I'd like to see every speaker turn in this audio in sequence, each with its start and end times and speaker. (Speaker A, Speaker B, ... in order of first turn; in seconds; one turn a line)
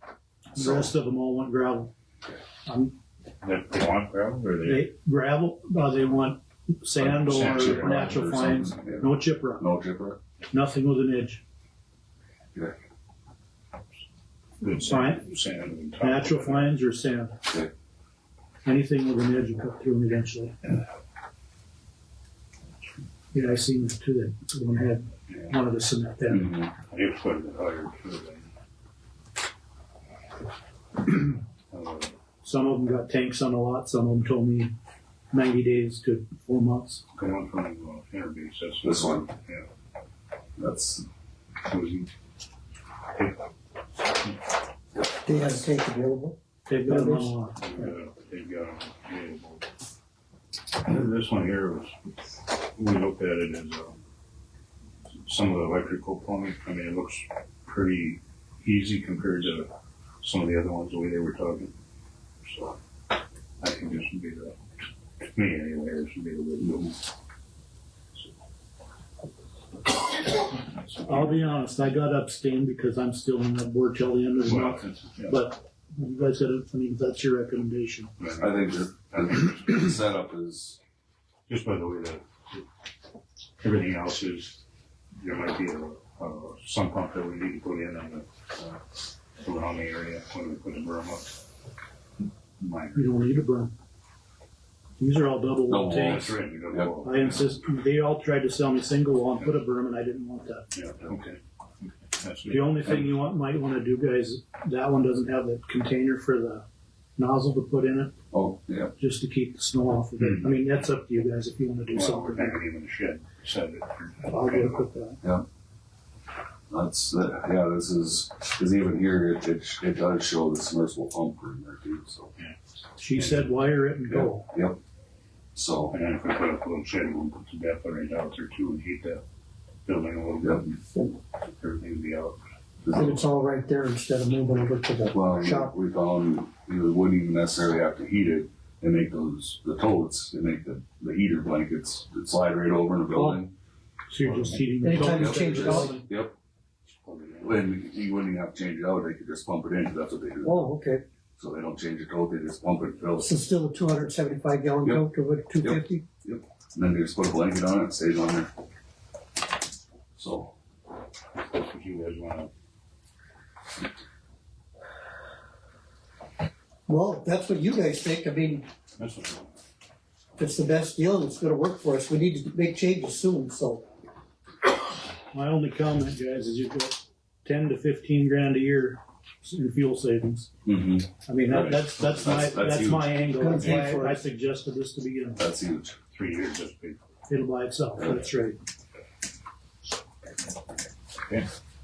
Speaker A: 0.5-1.9
Speaker B: 0.6-0.9
Speaker A: 2.7-3.0
Speaker C: 3.4-4.9
Speaker A: 4.7-9.7
Speaker B: 7.0-10.2
Speaker C: 7.3-7.9
Speaker A: 10.5-11.4
Speaker C: 14.6-16.8
Speaker A: 14.8-15.2
Speaker A: 16.0-17.4
Speaker A: 18.6-20.6
Speaker A: 23.3-26.5
Speaker B: 26.3-26.7
Speaker C: 26.9-28.5
Speaker C: 31.7-32.2
Speaker A: 32.4-34.7
Speaker A: 35.3-37.0
Speaker C: 37.1-39.7
Speaker B: 38.8-39.3
Speaker B: 40.6-41.1
Speaker C: 41.6-42.1
Speaker C: 43.1-43.5
Speaker D: 45.2-47.3
Speaker A: 46.7-47.6
Speaker C: 47.6-49.7
Speaker C: 50.8-52.0
Speaker C: 52.8-54.0
Speaker C: 55.2-59.7
Speaker C: 60.2-61.7
Speaker C: 62.4-62.8
Speaker C: 63.6-64.6
Speaker C: 65.2-67.0
Speaker C: 70.5-71.6
Speaker A: 71.0-78.1
Speaker C: 74.4-75.4
Speaker C: 78.2-79.9
Speaker B: 78.4-80.8
Speaker C: 81.5-82.6
Speaker C: 83.6-84.6
Speaker C: 85.2-88.3
Speaker C: 89.4-91.3
Speaker C: 92.6-93.2
Speaker A: 93.0-93.7
Speaker A: 95.0-96.3
Speaker B: 95.7-96.9
Speaker C: 96.0-97.5
Speaker A: 97.0-100.7
Speaker C: 100.7-103.2
Speaker A: 102.5-106.7
Speaker A: 107.2-108.2
Speaker B: 108.3-108.9
Speaker A: 109.0-112.6
Speaker C: 110.2-110.8
Speaker C: 111.9-114.8
Speaker A: 114.3-115.2
Speaker B: 116.7-122.3
Speaker A: 123.0-124.5
Speaker C: 123.1-123.5
Speaker B: 124.1-124.8
Speaker B: 125.5-126.0
Speaker C: 125.9-129.2
Speaker C: 129.8-130.8
Speaker B: 130.4-130.7
Speaker D: 130.9-131.2
Speaker C: 131.6-132.4
Speaker B: 132.8-133.2
Speaker D: 132.9-135.7
Speaker B: 135.1-143.5
Speaker D: 143.1-143.4
Speaker A: 144.1-146.1
Speaker C: 144.2-144.7
Speaker D: 144.8-146.0
Speaker B: 145.1-146.3
Speaker C: 146.9-147.7
Speaker B: 147.4-150.7
Speaker D: 150.4-151.0
Speaker B: 151.4-153.3
Speaker D: 153.2-156.1
Speaker B: 155.6-158.5
Speaker B: 160.2-160.6
Speaker C: 161.4-162.5
Speaker D: 166.9-168.7
Speaker C: 169.0-169.5
Speaker D: 170.4-173.8
Speaker A: 175.3-180.5
Speaker B: 180.7-183.5
Speaker A: 181.3-185.4
Speaker D: 183.3-184.2
Speaker B: 185.4-186.0
Speaker C: 186.1-187.1
Speaker A: 187.3-188.6
Speaker B: 188.0-188.3